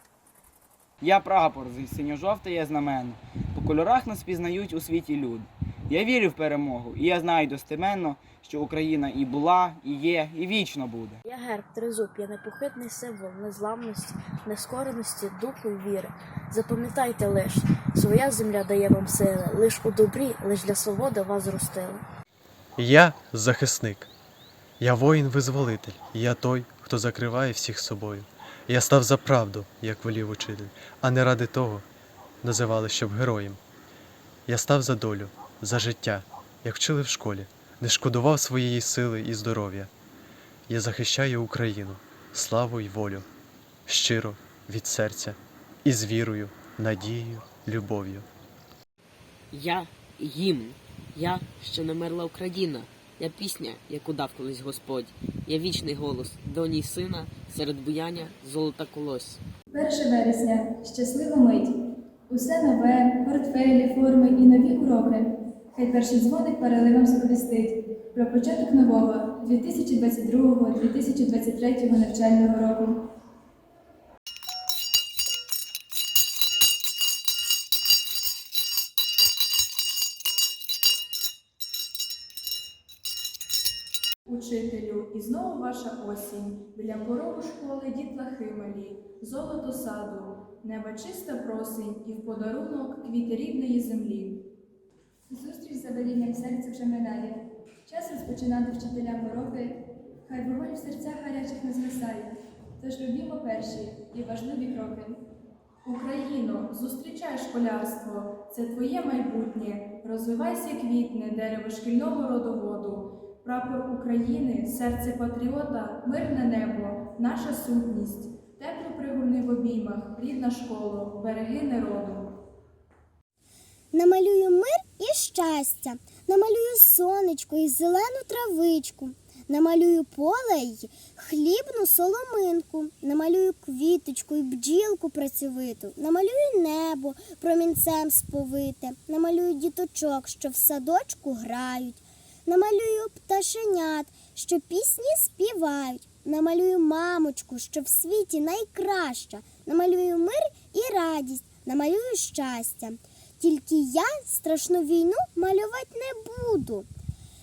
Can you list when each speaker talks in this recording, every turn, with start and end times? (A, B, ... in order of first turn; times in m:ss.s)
0:01.0-0:11.2 A
0:11.3-0:22.0 B
0:22.8-0:24.1 C
0:24.8-0:31.8 C
0:32.4-0:33.6 C
0:34.5-0:39.9 C
0:40.7-0:43.2 C
0:43.9-0:48.3 C
0:49.5-0:59.4 D
0:59.7-1:13.0 E
1:24.3-1:34.5 F
1:35.3-1:45.2 E
1:45.9-1:46.2 E
1:45.9-2:02.3 F
2:03.9-2:36.9 G